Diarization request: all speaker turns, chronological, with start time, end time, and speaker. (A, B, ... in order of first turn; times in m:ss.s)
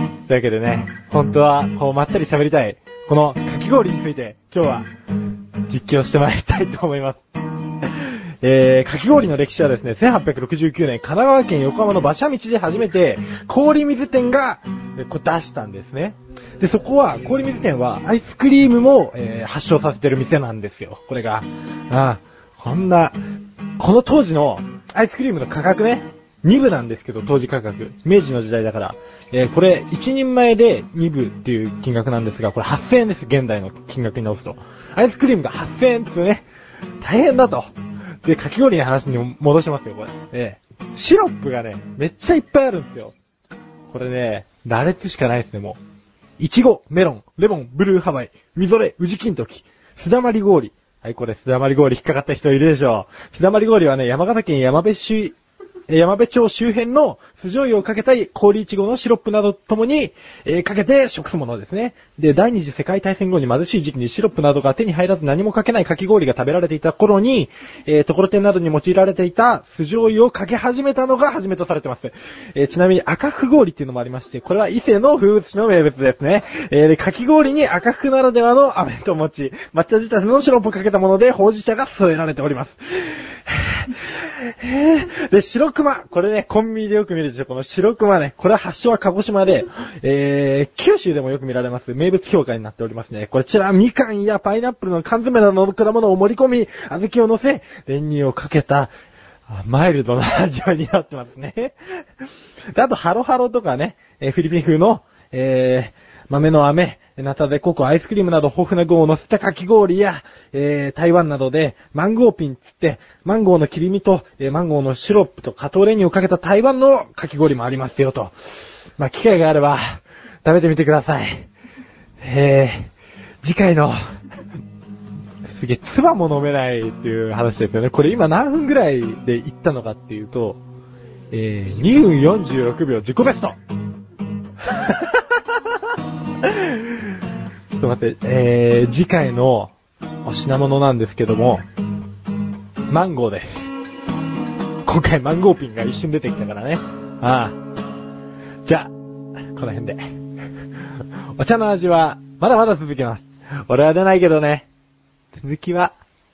0:00.3-0:04.9 A
0:05.7-0:07.2 A
0:07.8-0:23.2 A
0:23.8-0:36.4 A
0:37.0-0:37.7 A
0:38.2-0:43.1 A
0:43.9-0:45.8 A
0:46.4-0:55.4 A
0:55.9-1:38.9 A
1:39.5-1:41.8 A
1:42.7-2:01.5 A
2:02.2-2:02.9 A
2:03.4-2:04.0 A
2:05.4-2:10.6 A
2:11.3-2:13.6 A
2:14.6-2:15.2 A
2:16.4-2:17.2 A
2:17.7-2:19.7 A
2:20.2-2:21.6 A
2:22.9-2:23.7 A
2:24.8-2:27.6 A
2:28.6-2:28.9 A
2:29.5-2:30.0 A
2:31.4-2:34.7 A
2:35.3-2:35.9 A